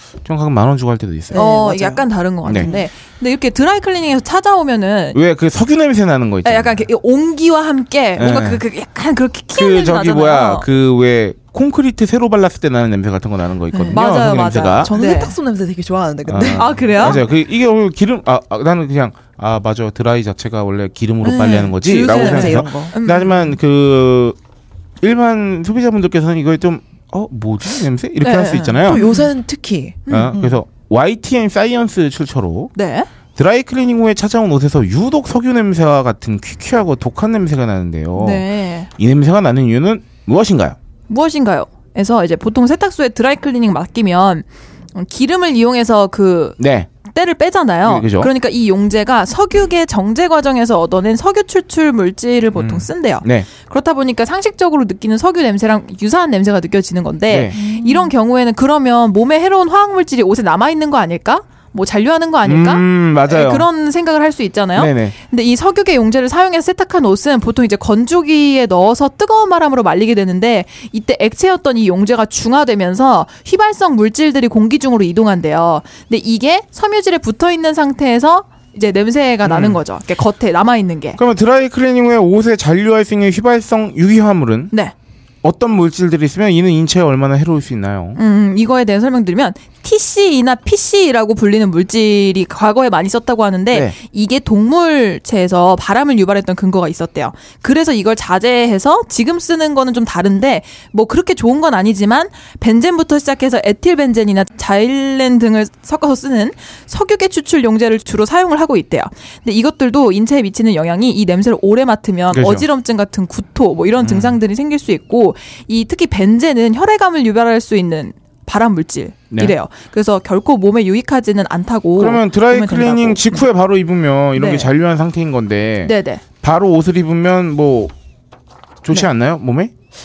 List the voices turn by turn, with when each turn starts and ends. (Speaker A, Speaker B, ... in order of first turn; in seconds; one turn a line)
Speaker A: 0.2-1.4
Speaker B: 1.3-2.9
Speaker C: 1.3-5.2
Speaker A: 2.5-2.7
Speaker A: 5.1-6.9
Speaker C: 6.4-10.7
Speaker A: 8.2-8.6
Speaker A: 9.6-14.9
Speaker C: 13.7-15.4
Speaker B: 14.8-17.3
Speaker A: 16.3-24.4
Speaker C: 16.6-17.2
Speaker B: 21.2-22.9
Speaker C: 21.8-23.3
Speaker A: 25.0-29.0
Speaker C: 28.2-29.3
Speaker B: 28.9-30.6
Speaker C: 30.1-30.4
Speaker A: 30.1-32.7
Speaker C: 32.8-33.1
Speaker A: 33.4-38.5
Speaker C: 38.1-38.9
Speaker A: 39.0-40.8
Speaker C: 41.1-46.6
Speaker A: 46.6-46.9
Speaker C: 47.1-81.2
Speaker A: 47.8-48.3
Speaker A: 52.6-53.5
Speaker A: 57.3-57.6
Speaker B: 57.5-58.1
Speaker A: 62.5-63.7
Speaker A: 64.8-65.2
Speaker A: 79.5-79.8
Speaker A: 81.2-84.7
Speaker A: 85.4-88.2
Speaker C: 88.2-123.5
Speaker A: 112.3-112.7
Speaker A: 114.0-114.4
Speaker A: 122.0-127.9
Speaker C: 124.4-124.7
Speaker C: 125.8-126.2
Speaker A: 128.8-129.7